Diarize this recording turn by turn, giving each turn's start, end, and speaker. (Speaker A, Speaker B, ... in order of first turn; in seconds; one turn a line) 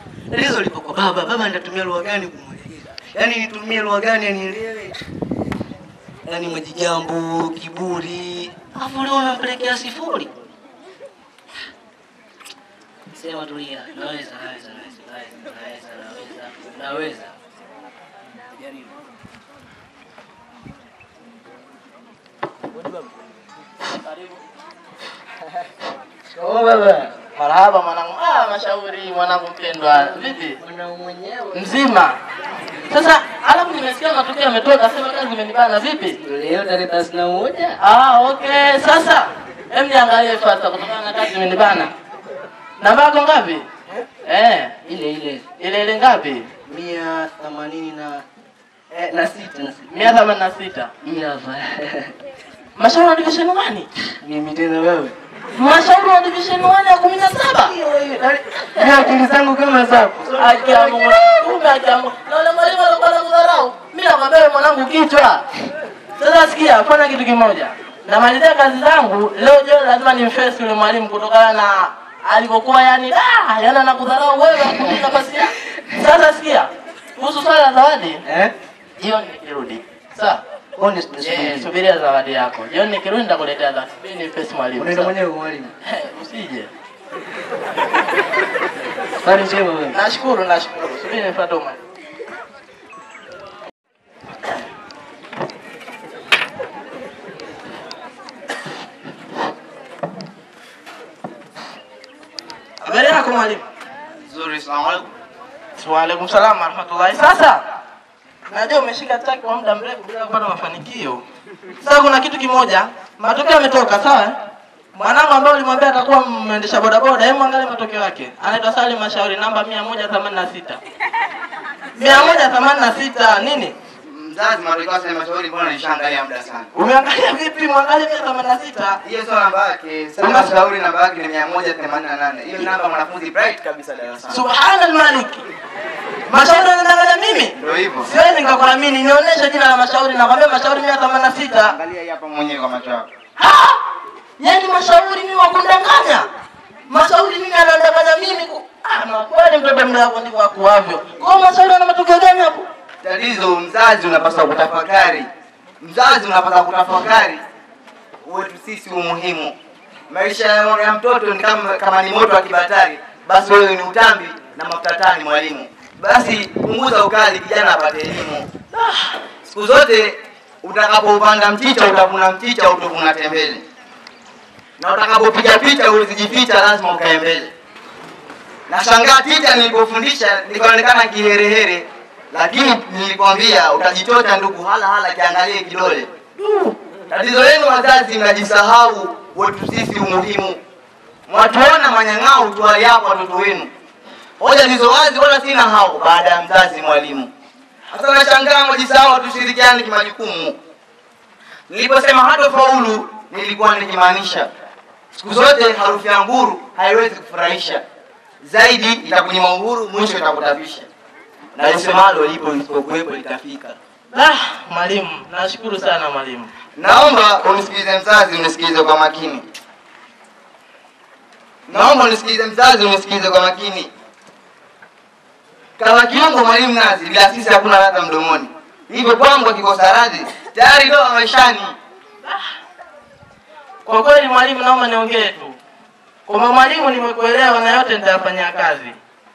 Speaker A: 0.3-5.0
Speaker A: 6.3-10.3
Speaker A: 13.1-17.4
Speaker B: 23.9-24.4
Speaker A: 26.3-27.1
Speaker B: 27.4-30.6
Speaker A: 30.0-31.7
Speaker B: 31.5-32.2
Speaker B: 32.9-36.2
Speaker A: 36.2-37.8
Speaker B: 37.8-41.9
Speaker B: 42.8-44.8
Speaker A: 44.9-45.5
Speaker B: 45.6-46.5
Speaker A: 46.7-48.2
Speaker A: 48.9-50.2
Speaker B: 49.9-50.9
Speaker A: 51.0-52.1
Speaker B: 52.8-53.9
Speaker A: 54.2-55.1
Speaker B: 55.5-57.8
Speaker A: 57.5-61.4
Speaker B: 60.4-65.4
Speaker B: 66.2-78.2
Speaker A: 78.2-78.5
Speaker B: 79.0-80.4
Speaker A: 80.8-81.7
Speaker B: 81.2-85.1
Speaker A: 84.8-85.7
Speaker B: 85.8-86.7
Speaker A: 89.2-90.0
Speaker B: 89.9-91.8
Speaker B: 102.8-103.6
Speaker C: 104.3-105.1
Speaker B: 105.8-107.6
Speaker B: 108.5-111.2
Speaker B: 111.8-114.3
Speaker B: 115.0-120.8
Speaker B: 122.0-123.7
Speaker C: 122.1-122.4
Speaker C: 124.1-126.7
Speaker B: 126.8-129.0
Speaker C: 129.0-134.4
Speaker B: 130.2-130.6
Speaker B: 134.3-135.4
Speaker B: 136.3-141.8
Speaker C: 137.6-138.1
Speaker C: 141.7-143.1
Speaker B: 143.4-143.8
Speaker B: 144.4-146.3
Speaker B: 146.9-152.7
Speaker C: 153.0-155.3
Speaker C: 155.8-157.4
Speaker C: 158.2-159.6
Speaker C: 160.1-168.6
Speaker B: 168.7-169.1
Speaker C: 169.4-173.6
Speaker C: 174.8-177.5
Speaker C: 178.7-186.2
Speaker B: 186.4-186.8
Speaker C: 187.1-190.6
Speaker C: 191.3-193.7
Speaker C: 194.4-197.3
Speaker C: 197.9-200.6
Speaker C: 201.7-204.5
Speaker C: 205.1-207.8
Speaker C: 208.4-210.9
Speaker C: 211.6-213.8
Speaker B: 214.1-216.5
Speaker C: 216.8-219.4
Speaker C: 221.7-223.9
Speaker C: 225.8-231.8
Speaker B: 233.9-235.6
Speaker B: 236.3-238.9